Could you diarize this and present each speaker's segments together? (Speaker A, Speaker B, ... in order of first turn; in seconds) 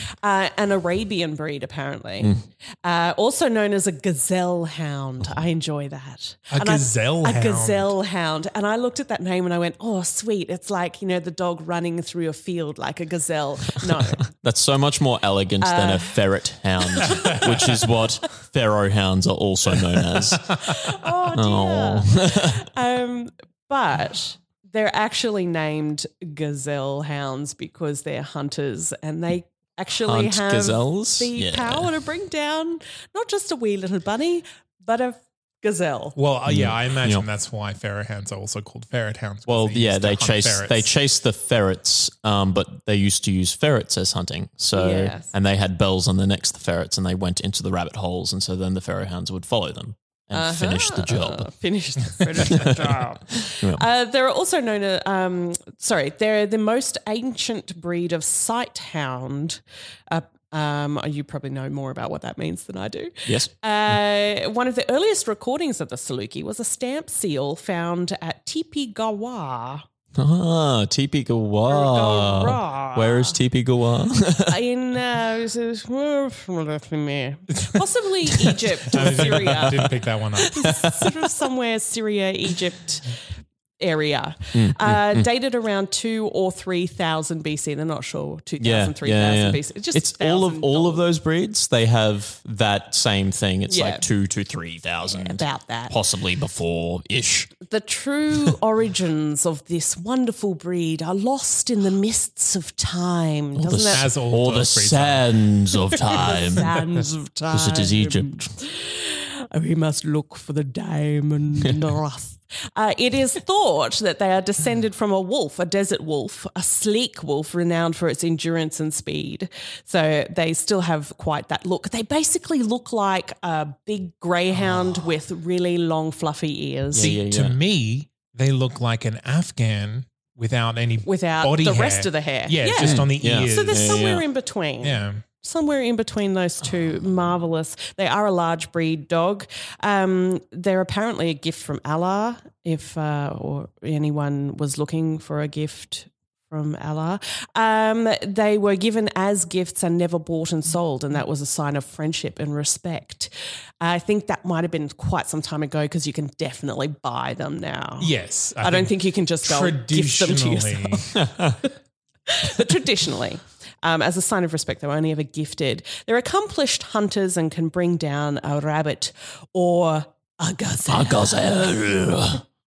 Speaker A: 0.2-14.2, 15.6-16.1, 16.9-17.9, 20.6-36.1, 44.7-45.3, 50.3-69.8, 71.7-73.4, 74.4-79.9, 80.4-83.2, 83.8-91.0, 93.7-94.0, 95.1-96.0, 97.7-104.1, 106.1-127.2, 131.0-161.2, 162.3-171.4
Speaker B: 6.5-7.9, 36.1-40.9, 77.5-77.8, 78.8-80.7, 103.9-105.3, 127.0-134.0, 134.8-135.2, 158.0-161.1
Speaker C: 14.2-20.7, 21.3-22.6, 30.0-31.9, 36.5-37.2, 39.5-51.5, 52.4-53.8, 63.2-63.9, 70.2-74.5, 78.4-81.2, 84.5-85.3, 88.6-97.5, 103.5-106.7, 107.5-108.5, 126.9-127.6, 132.8-134.2, 161.2-161.6, 170.9-172.4